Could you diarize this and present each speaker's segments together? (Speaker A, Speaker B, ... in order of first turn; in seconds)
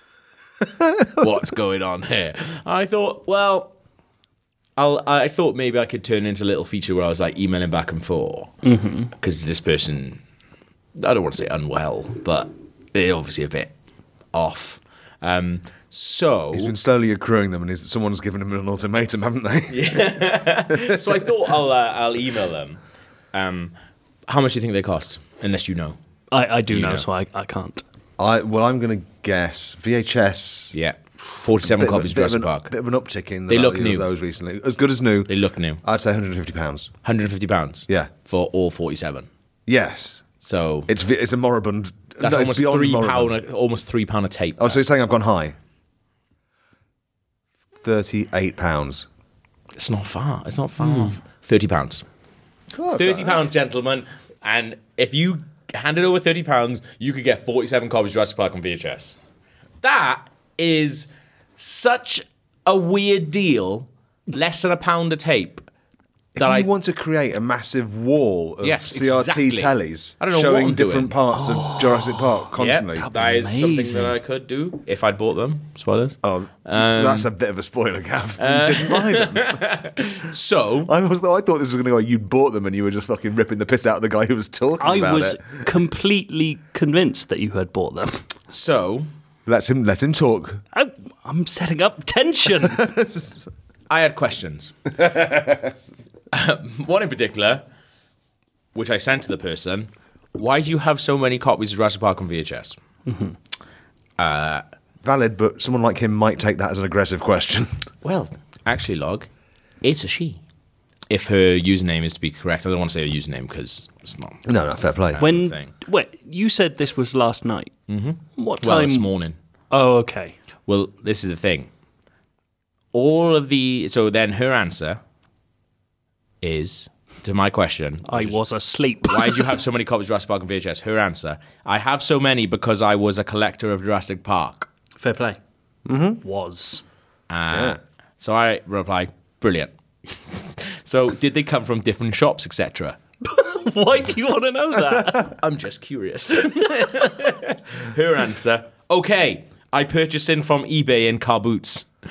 Speaker A: 1.1-3.7, 4.8-8.6, 9.1-10.2, 10.9-13.7, 14.3-16.7, 19.7-22.8, 23.3-23.7, 24.3-26.0, 26.7-27.1, 30.7-32.7, 33.5-34.0, 35.3-35.8, 37.0-39.3, 40.4-40.9, 42.2-44.8, 49.8-52.0, 52.9-59.1, 59.8-65.7, 66.4-66.7, 68.6-71.1, 72.5-77.3, 78.4-80.9, 88.5-89.1, 93.9-95.0, 96.3-97.6, 98.8-102.8, 104.2-104.6, 108.0-109.3, 109.8-110.4, 111.1-114.4, 115.1-115.7, 117.9-119.4, 120.7-121.7, 122.9-125.0, 126.4-128.4, 129.0-134.7, 137.3-143.0, 145.3-151.9
Speaker B: 8.6-9.1, 26.3-27.8, 50.8-51.1, 71.3-72.4, 72.9-74.2, 84.8-88.2, 90.7-92.9, 103.1-103.3, 115.2-117.7, 118.4-119.1, 119.7-120.4, 128.1-129.5, 135.0-135.4, 136.2-136.8, 143.2-145.3
Speaker C: 16.5-20.1, 20.7-21.0, 28.2-30.7, 31.6-36.9, 39.7-40.3, 40.9-43.4, 44.6-45.5, 47.8-49.1, 52.7-53.4, 66.4-73.0, 76.2-79.6, 80.8-85.5, 89.5-90.6, 92.7-93.4, 95.1-95.7, 105.0-107.8, 114.5-115.2, 135.9-136.2, 137.5-137.8